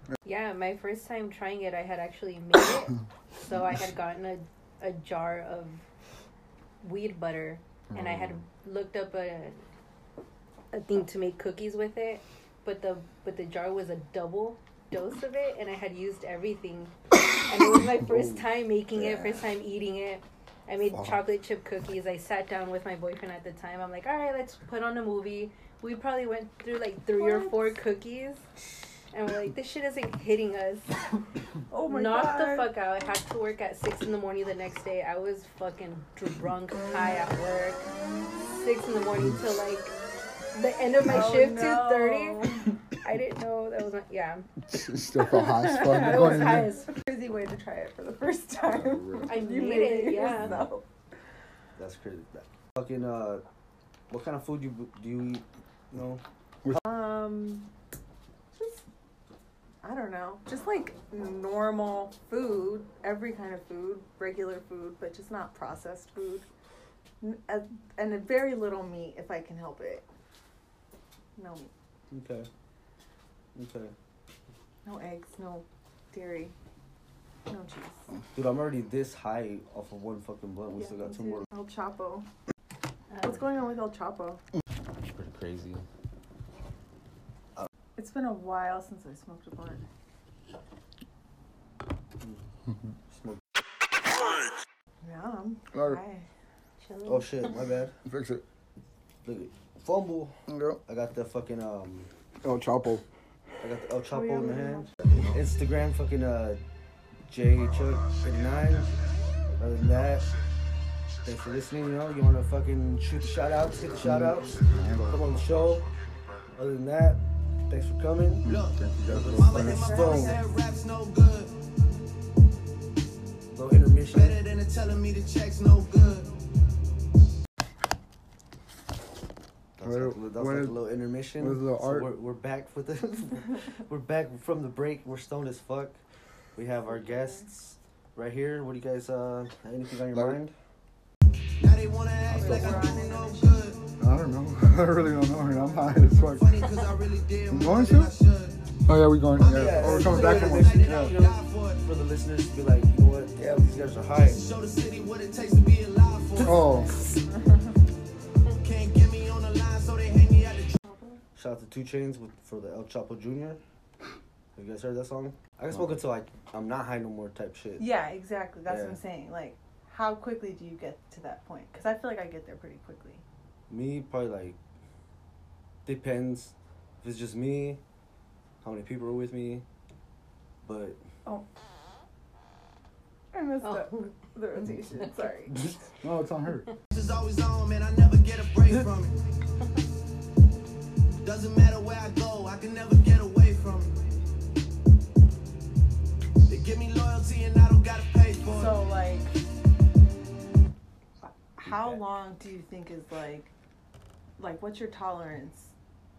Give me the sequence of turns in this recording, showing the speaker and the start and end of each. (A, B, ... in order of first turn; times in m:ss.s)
0:00.2-0:05.8 A
0:06.8-0:09.6 A
0:07.9-0:08.4 B
0:10.7-0:28.4 A
0:18.1-0:18.4 C
0:19.0-0:19.3 C
0:20.9-0:21.2 B
0:27.2-0:27.8 D
0:29.1-0:31.2 A
0:31.7-0:32.7 D
0:31.9-0:37.9 A
0:38.5-0:40.0 A
0:40.5-0:44.4 A
0:41.0-0:42.7 D
0:44.7-0:46.7 B
0:45.3-0:50.8 D
0:45.6-0:46.9 A
0:48.7-0:49.3 B
0:49.3-0:50.6 A
0:51.8-0:53.4 C
0:54.1-0:56.2 C
0:56.8-0:57.7 D
0:58.5-0:58.8 D
0:59.8-1:06.5 D
1:07.2-1:10.1 D
1:11.4-1:11.7 D
1:12.1-1:12.5 C
1:13.6-1:13.9 C
1:14.8-1:16.6 D
1:17.5-1:18.0 D
1:18.4-1:21.5 C
1:20.8-1:22.3 D
1:23.1-1:23.4 A
1:23.2-1:24.4 D
1:25.0-1:25.8 C
1:28.0-1:29.8 D
1:33.1-1:33.4 C
1:35.0-1:36.3 D
1:35.7-1:36.0 B
1:36.8-1:37.6 A
1:37.0-1:37.9 C
1:38.0-1:38.4 B
1:39.2-1:42.1 C
1:40.5-1:40.8 B
1:42.4-1:43.0 B
1:43.6-1:46.6 C
1:44.1-1:45.3 D
1:47.3-1:48.9 C
1:49.6-1:50.3 C
1:51.2-1:55.9 C
1:53.9-1:55.4 B
1:56.5-1:58.5 C
1:58.4-2:00.4 B
1:58.5-2:01.5 E
1:59.1-1:59.9 C
1:59.6-2:00.5 D
2:03.5-2:04.4 C
2:04.1-2:06.4 E
2:09.8-2:16.0 C
2:09.8-2:10.8 B
2:11.4-2:12.1 B
2:16.6-2:20.5 C
2:17.0-2:17.4 D
2:20.1-2:20.4 B
2:21.6-2:24.0 E
2:22.3-2:23.7 D
2:22.4-2:22.8 C
2:24.0-2:26.6 B
2:26.2-2:28.7 E
2:27.5-2:28.1 B
2:28.9-2:31.1 B
2:29.4-2:31.8 E
2:29.4-2:34.4 C
2:34.2-2:37.2 E
2:36.4-2:37.0 B
2:37.3-2:37.7 D
2:38.6-2:40.8 E
2:40.8-2:41.2 D
2:41.4-2:43.6 C
2:44.6-2:47.8 C
2:45.7-2:46.0 B
2:47.8-2:53.2 D
2:48.7-2:49.0 C
2:53.7-2:54.6 C
2:55.8-2:57.8 C
2:58.6-2:59.6 C
3:00.6-3:01.0 C
3:03.3-3:05.6 D
3:03.6-3:04.1 A
3:04.6-3:05.0 A
3:06.0-3:06.7 B
3:06.9-3:09.2 E
3:11.2-3:14.0 E
3:16.5-3:18.8 E
3:18.5-3:19.3 D
3:21.2-3:23.5 D
3:21.7-3:22.0 C
3:24.4-3:25.7 D